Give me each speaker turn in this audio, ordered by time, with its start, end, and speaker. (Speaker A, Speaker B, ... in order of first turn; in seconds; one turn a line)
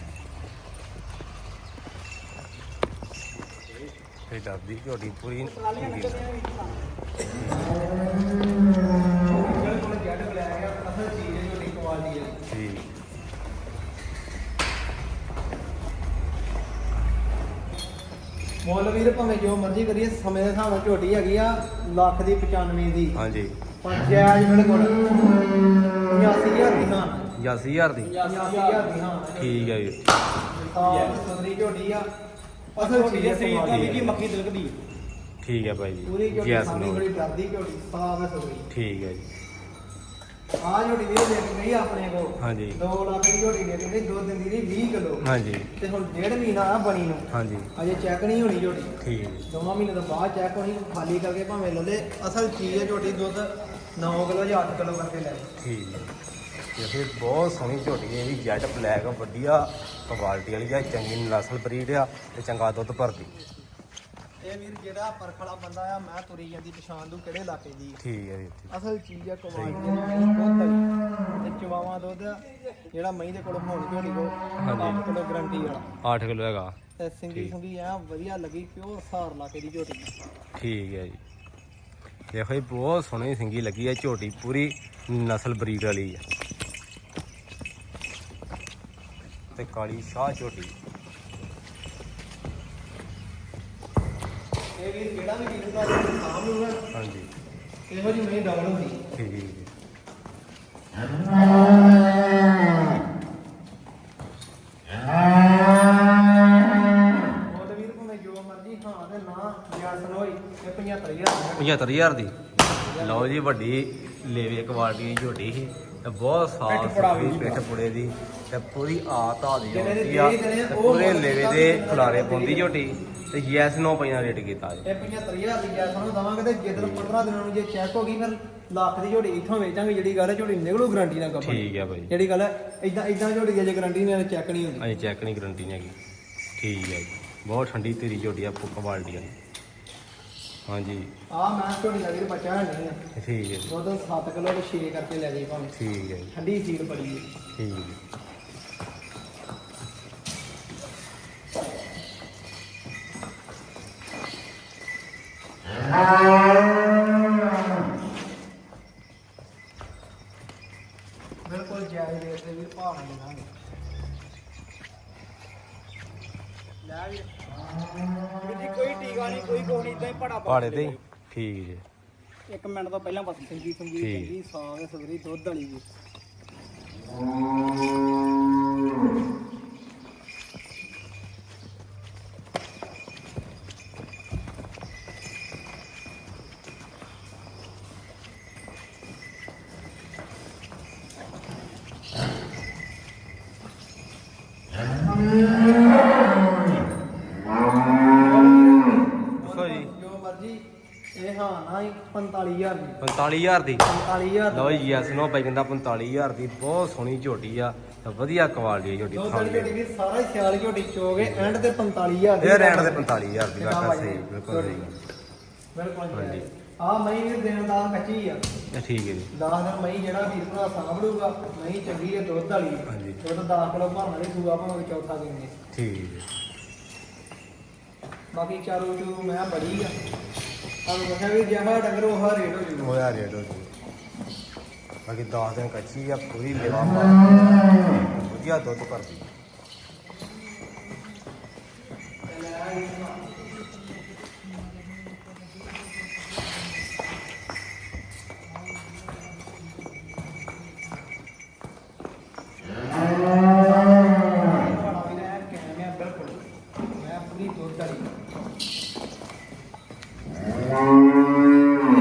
Speaker A: 4.3-6.2
Speaker B: 5.4-6.9
Speaker A: 7.2-7.8
Speaker C: 9.2-12.4
Speaker A: 12.5-12.9
Speaker C: 18.6-23.2
Speaker A: 23.2-23.6
Speaker C: 23.8-25.1
Speaker C: 26.1-27.3
Speaker A: 27.4-28.1
Speaker B: 28.0-29.0
Speaker C: 28.2-29.9
Speaker A: 29.4-30.1
Speaker C: 30.5-32.1
Speaker B: 30.8-31.2
Speaker B: 32.8-34.8
Speaker C: 32.8-34.2
Speaker A: 33.7-34.0
Speaker A: 35.4-37.1
Speaker C: 36.0-38.7
Speaker A: 38.7-39.3
Speaker C: 40.6-45.2
Speaker A: 42.4-42.8
Speaker A: 45.2-45.7
Speaker C: 45.8-48.9
Speaker A: 47.3-47.7
Speaker A: 49.0-49.5
Speaker C: 49.5-55.5
Speaker A: 55.6-56.1
Speaker A: 56.8-63.3
Speaker C: 64.4-68.0
Speaker A: 68.0-68.7
Speaker C: 68.7-70.9
Speaker A: 69.5-69.8
Speaker C: 71.4-75.8
Speaker A: 74.6-75.0
Speaker A: 76.0-76.8
Speaker C: 77.0-80.1
Speaker A: 80.6-81.2
Speaker A: 82.3-86.2
Speaker A: 89.5-90.7
Speaker C: 94.8-96.8
Speaker A: 96.9-97.3
Speaker C: 97.9-99.0
Speaker A: 99.1-99.7
Speaker C: 107.4-111.8
Speaker A: 111.6-124.9
Speaker C: 112.7-113.3
Speaker B: 116.7-117.7
Speaker C: 119.6-122.8
Speaker C: 124.8-134.9
Speaker A: 126.8-127.1
Speaker A: 131.4-132.1
Speaker A: 134.8-136.0
Speaker A: 136.6-139.3
Speaker A: 140.7-141.1
Speaker C: 141.3-143.0
Speaker A: 143.2-143.7
Speaker C: 143.7-145.7
Speaker A: 145.8-146.3
Speaker C: 146.3-147.3
Speaker A: 147.6-148.0
Speaker C: 161.5-163.5
Speaker C: 166.8-167.3
Speaker B: 168.4-171.0
Speaker A: 170.5-171.8
Speaker B: 172.5-173.6
Speaker C: 173.5-175.8
Speaker A: 174.0-174.3
Speaker C: 198.1-200.6
Speaker A: 199.4-199.9
Speaker C: 201.2-203.0
Speaker A: 203.0-203.9
Speaker C: 203.8-205.3
Speaker A: 204.5-209.7
Speaker C: 209.1-214.8
Speaker A: 211.2-211.6
Speaker A: 212.4-215.0
Speaker C: 215.8-218.4
Speaker A: 216.1-216.5
Speaker A: 218.7-219.3
Speaker C: 219.3-225.5
Speaker A: 222.9-223.2
Speaker A: 225.7-226.3
Speaker C: 228.3-229.9
Speaker C: 230.9-232.9
Speaker A: 232.8-233.7
Speaker A: 235.1-239.3
Speaker C: 242.3-243.2
Speaker C: 253.3-256.4
Speaker C: 257.0-258.1